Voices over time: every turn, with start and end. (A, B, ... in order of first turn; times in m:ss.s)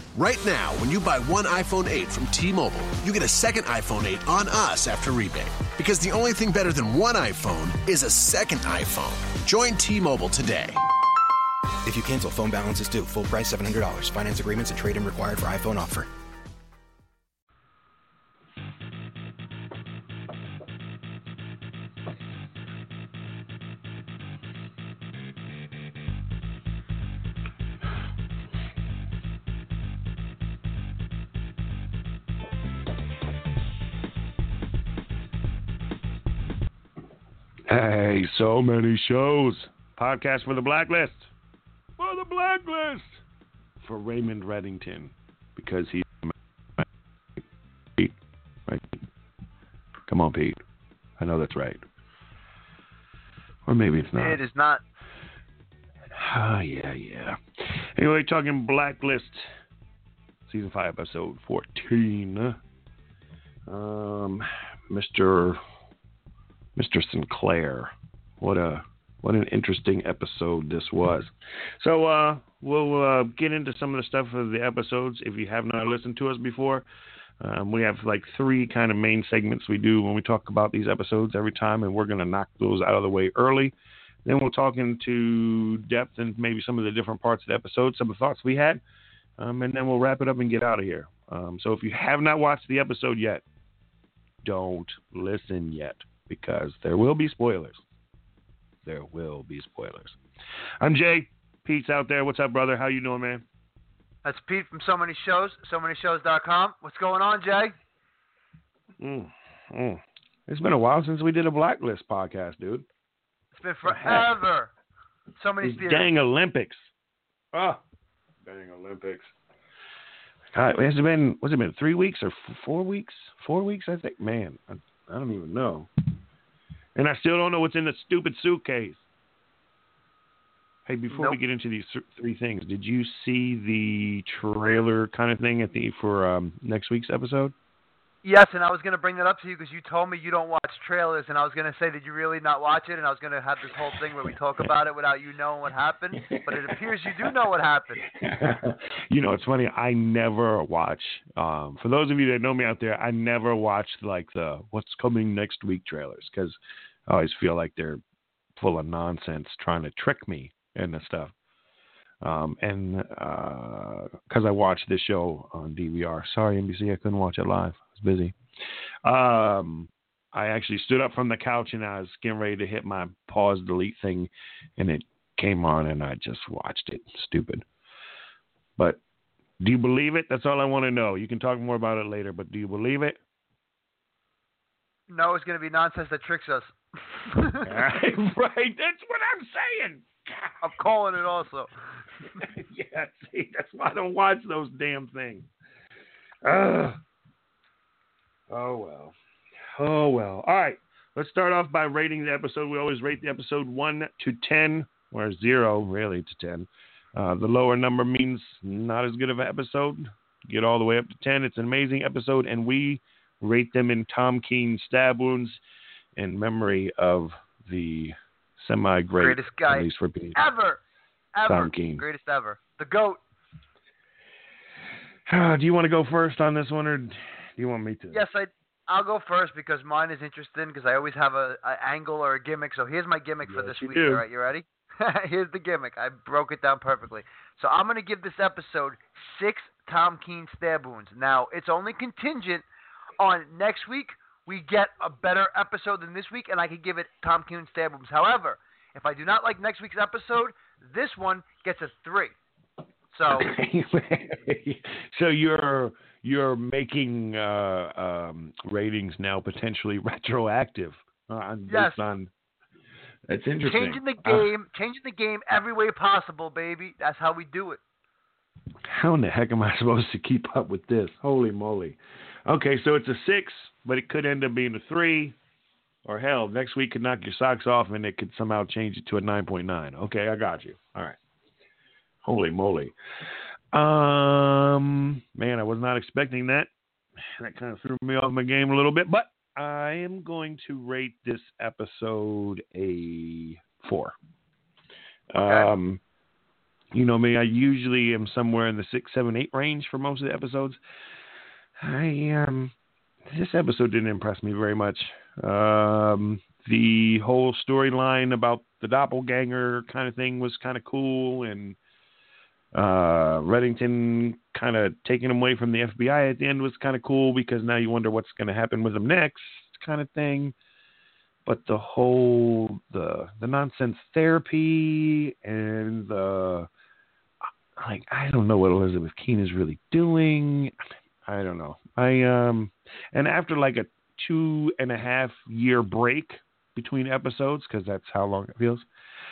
0:00.2-0:10.8 A
0:11.9-0:16.1 B
0:37.7-0:41.3 C
0:42.0-0:43.2 C
0:43.8-0:46.8 C
0:50.1-0:50.6 C
0:51.2-0:51.8 C
0:53.7-0:54.4 C
0:54.2-0:54.8 D
0:56.1-0:59.5 C
1:00.5-1:02.6 C
1:03.7-1:05.6 C
1:06.8-1:16.8 C
1:17.4-1:23.7 C
1:24.2-1:28.8 C
1:29.4-1:33.4 C
1:34.4-1:37.8 C
1:38.8-1:40.2 C
1:40.8-1:43.4 C
1:44.2-1:47.7 D
1:49.0-1:52.8 C
1:53.6-1:54.7 D
1:53.8-1:54.4 C
1:55.4-1:56.1 D
1:55.6-1:56.9 C
1:57.5-1:57.8 C
1:58.4-1:59.3 C
2:00.5-2:05.9 C
2:07.0-2:09.0 C
2:10.9-2:17.5 C
2:11.1-2:11.4 D
2:18.2-2:28.0 D
2:26.2-2:27.3 C
2:28.0-2:36.6 C
2:37.1-2:38.0 C
2:38.6-2:41.3 C
2:42.2-2:48.4 C
2:49.0-2:57.6 C
2:59.6-3:03.2 C
3:05.1-3:07.7 D
3:07.7-3:10.6 C
3:10.6-3:11.7 D
3:12.4-3:15.5 C
3:16.4-3:17.0 C
3:18.5-3:19.2 C
3:19.8-3:35.6 C
3:36.2-3:40.4 C
3:39.2-3:40.8 D
3:41.3-3:43.2 D
3:41.5-3:42.0 C
3:45.3-3:48.2 C
3:48.1-4:02.6 D
3:53.5-3:54.2 C
4:03.2-4:12.3 D
4:13.1-4:13.5 D
4:13.3-4:22.3 C
4:21.7-4:22.0 D
4:23.3-4:24.5 C
4:23.6-4:27.8 D
4:28.9-4:35.4 C
4:36.0-4:41.2 C
4:42.2-4:42.9 C
4:43.7-4:46.7 C
4:47.2-4:54.2 C
4:55.3-4:56.0 C
4:55.4-4:55.7 D
4:56.9-5:00.8 C
5:01.8-5:02.7 C
5:03.3-5:11.8 C
5:12.7-5:20.5 C
5:21.5-5:26.7 C
5:27.8-5:30.7 C
5:31.2-5:38.8 C